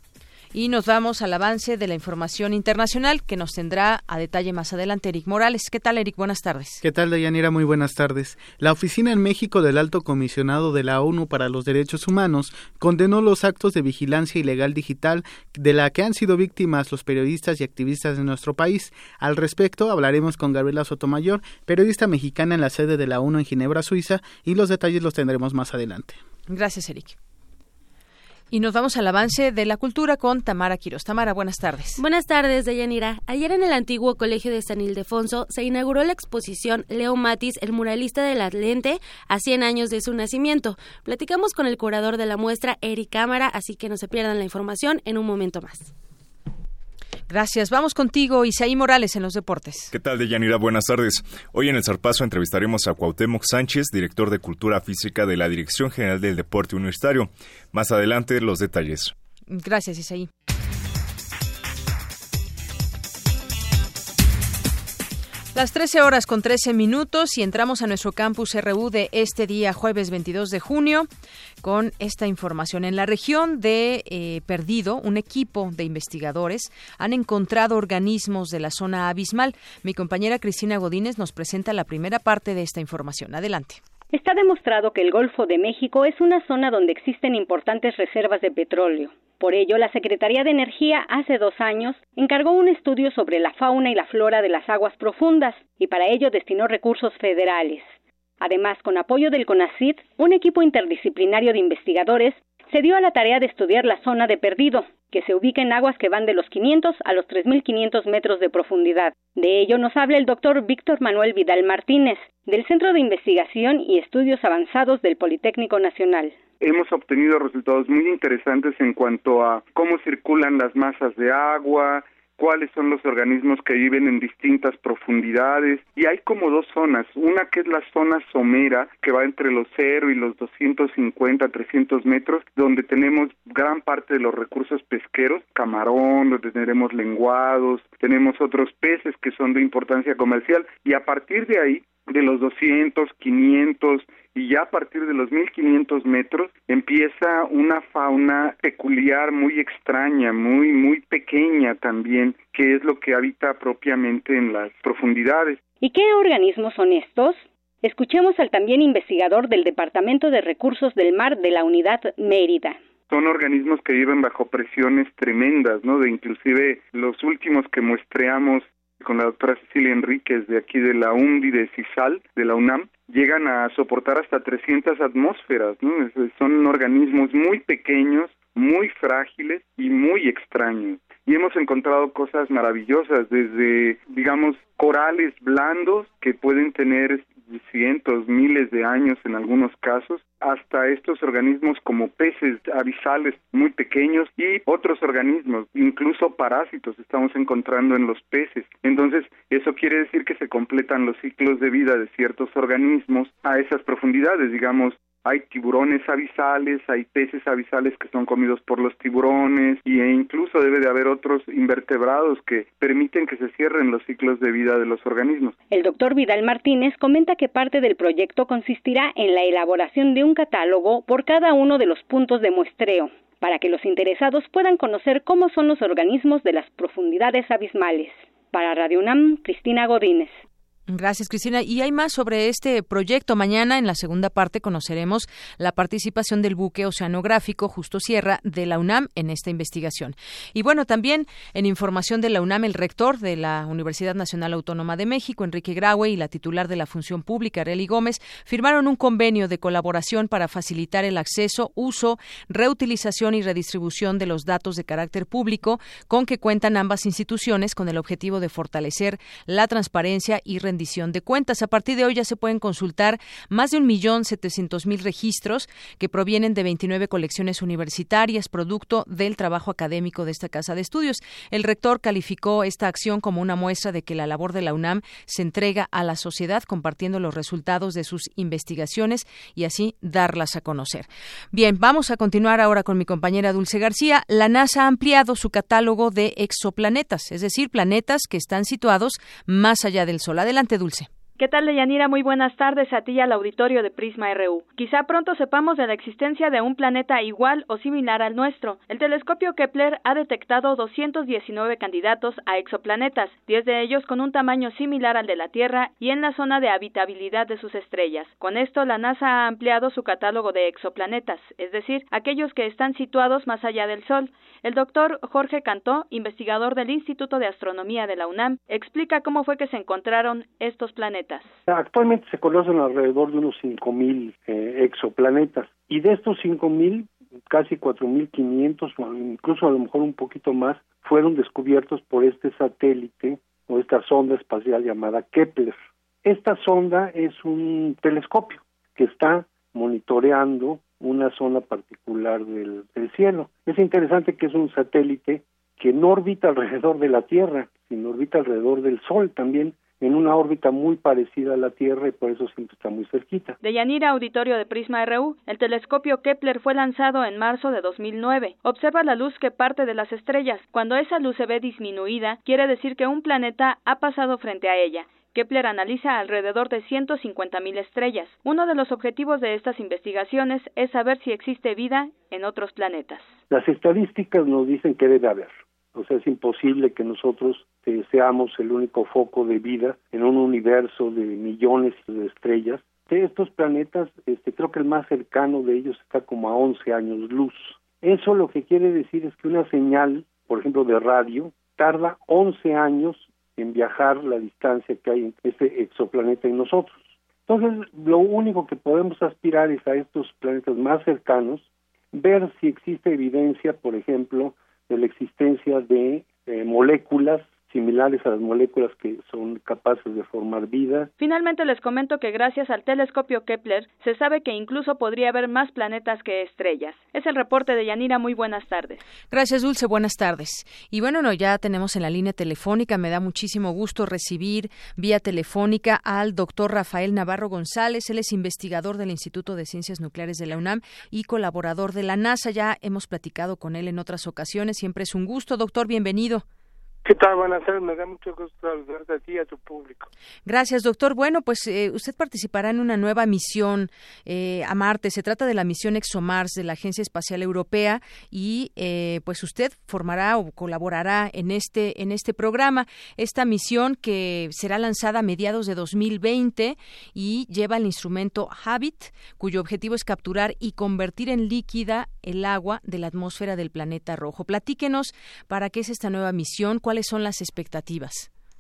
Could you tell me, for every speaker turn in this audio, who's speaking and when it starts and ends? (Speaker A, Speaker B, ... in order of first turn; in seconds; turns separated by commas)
Speaker A: 0.5-6.8, Speaker B: 6.8-26.2, Speaker A: 26.5-27.2, Speaker A: 28.5-32.0, Speaker C: 32.0-45.9, Speaker A: 47.3-49.9, Speaker D: 49.9-59.1, Speaker A: 59.5-60.3, Speaker A: 65.5-71.1, Speaker A: 71.6-83.8, Speaker E: 84.1-97.9, Speaker E: 98.4-116.4, Speaker F: 116.6-155.6, Speaker E: 155.8-162.8, Speaker F: 163.1-215.5, Speaker E: 215.7-230.4, Speaker A: 230.9-291.1, Speaker G: 291.4-321.5, Speaker H: 321.7-353.6, Speaker G: 353.6-373.3, Speaker H: 373.5-411.1, Speaker G: 411.2-419.0, Speaker A: 419.3-436.4, Speaker I: 437.1-440.1, Speaker A: 440.5-468.3